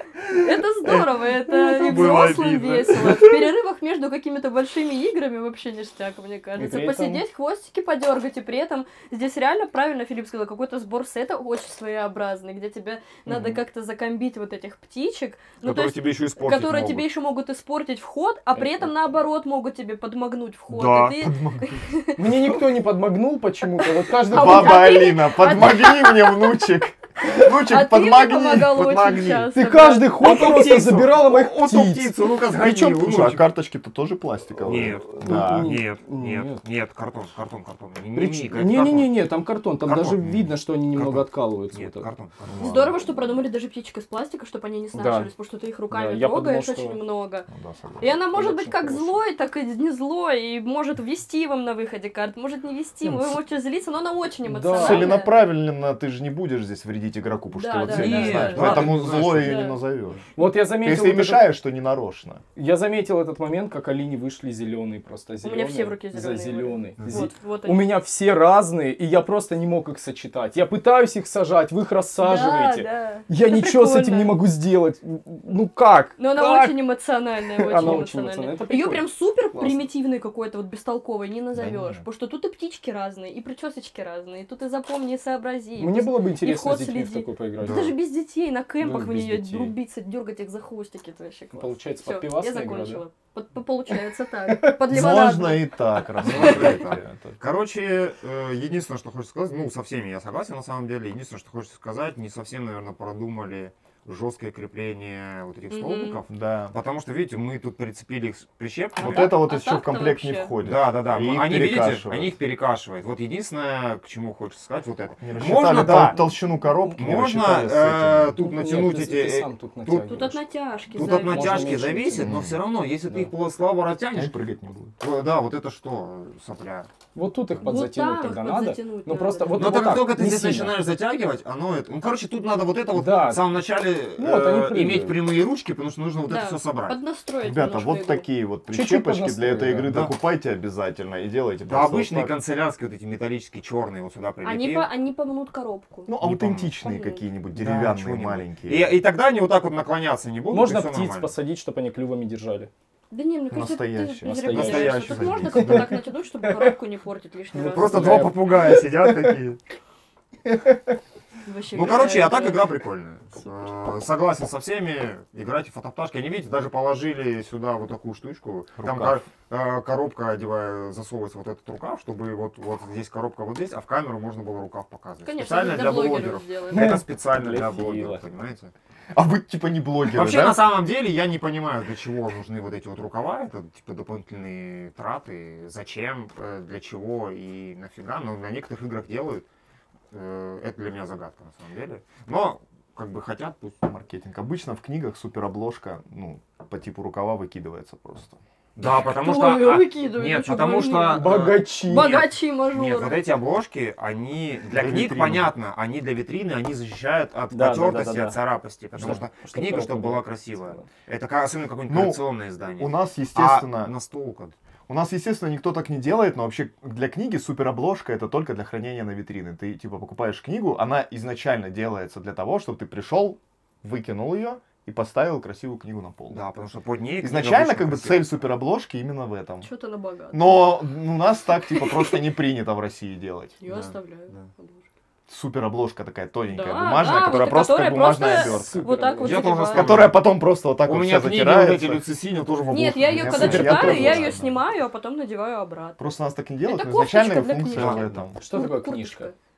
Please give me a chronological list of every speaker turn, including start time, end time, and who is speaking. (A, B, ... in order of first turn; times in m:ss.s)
0:00.3-0:22.3 A
0:01.5-0:02.4 B
0:01.8-0:03.2 C
0:06.6-0:07.2 B
0:15.6-0:17.0 C
0:18.6-0:18.9 B
0:20.7-0:21.4 C
0:21.3-0:21.9 D
0:22.2-0:25.0 B
0:24.2-0:26.6 A
0:24.3-0:29.5 D
0:27.4-0:30.3 A
0:29.5-0:32.3 B
0:30.1-0:33.5 C
0:32.5-0:35.8 D
0:34.6-0:39.2 C
0:34.7-0:36.6 B
0:38.2-0:42.1 B
0:39.8-0:42.7 C
0:42.5-0:43.0 D
0:42.6-0:47.5 A
0:44.9-0:45.3 B
0:45.9-0:47.0 B
0:47.5-0:48.2 D
0:48.0-0:55.4 A
0:48.3-0:49.2 B
0:54.4-0:55.2 B
0:54.8-1:02.4 D
0:57.5-0:59.8 A
0:57.9-0:59.8 C
1:00.4-1:01.6 B
1:02.6-1:16.9 B
1:05.4-1:07.9 A
1:12.2-1:14.4 A
1:16.2-1:36.8 A
1:17.5-1:19.9 B
1:21.5-1:22.0 D
1:25.8-1:28.0 B
1:27.6-1:28.0 C
1:28.8-1:29.8 B
1:31.5-1:33.0 B
1:34.9-1:37.3 D
1:36.2-1:49.4 C
1:45.7-1:46.2 A
1:46.3-1:46.7 D
1:49.0-1:50.5 A
1:49.0-1:52.3 D
1:50.6-1:56.3 C
1:55.2-1:58.4 D
1:56.9-2:00.2 C
1:58.4-2:00.4 B
2:00.1-2:01.8 A
2:00.9-2:02.5 B
2:00.9-2:04.4 C
2:02.2-2:02.6 D
2:03.1-2:03.3 B
2:04.1-2:04.9 D
2:05.0-2:06.9 C
2:07.1-2:10.8 B
2:07.6-2:09.9 A
2:09.5-2:17.0 C
2:12.9-2:13.4 B
2:14.2-2:15.2 B
2:16.3-2:18.3 A
2:17.4-2:22.4 D
2:18.7-2:20.1 B
2:19.9-2:20.1 C
2:21.7-2:24.9 C
2:24.4-2:26.1 A
2:26.1-2:29.0 D
2:26.2-2:26.7 C
2:26.8-2:27.2 A
2:27.5-2:31.3 C
2:30.5-2:32.7 B
2:33.1-2:38.2 A
2:33.5-2:34.9 D
2:34.2-2:36.7 B
2:34.5-2:36.0 C
2:37.5-2:39.4 B
2:37.6-2:39.6 C
2:40.5-2:41.0 B
2:41.4-2:42.7 A
2:41.7-2:58.7 C
2:48.8-2:49.2 D
2:55.2-2:57.0 A
2:56.7-2:58.2 B
2:59.1-3:00.6 D
3:00.1-3:09.5 C
3:10.1-3:13.8 C
3:13.8-3:18.4 D
3:18.8-3:34.6 C
3:19.0-3:23.2 A
3:21.1-3:22.3 B
3:24.7-3:25.5 D
3:27.5-3:28.4 B
3:29.0-3:30.8 B
3:31.9-3:32.2 D
3:32.8-3:33.9 D
3:34.9-3:46.4 D
3:46.3-3:48.4 C
3:47.2-3:49.7 D
3:49.6-3:50.8 A
3:50.3-3:53.6 D
3:51.7-3:52.2 A
3:53.6-3:54.9 A
3:53.7-3:54.5 C
3:55.3-3:58.9 D
3:56.5-4:00.0 A
3:58.2-3:59.7 B
3:59.2-4:04.4 C
3:59.7-4:02.0 D
4:02.7-4:06.1 A
4:03.1-4:04.6 D
4:06.0-4:08.4 D
4:06.6-4:09.4 A
4:07.7-4:08.3 C
4:08.4-4:09.3 B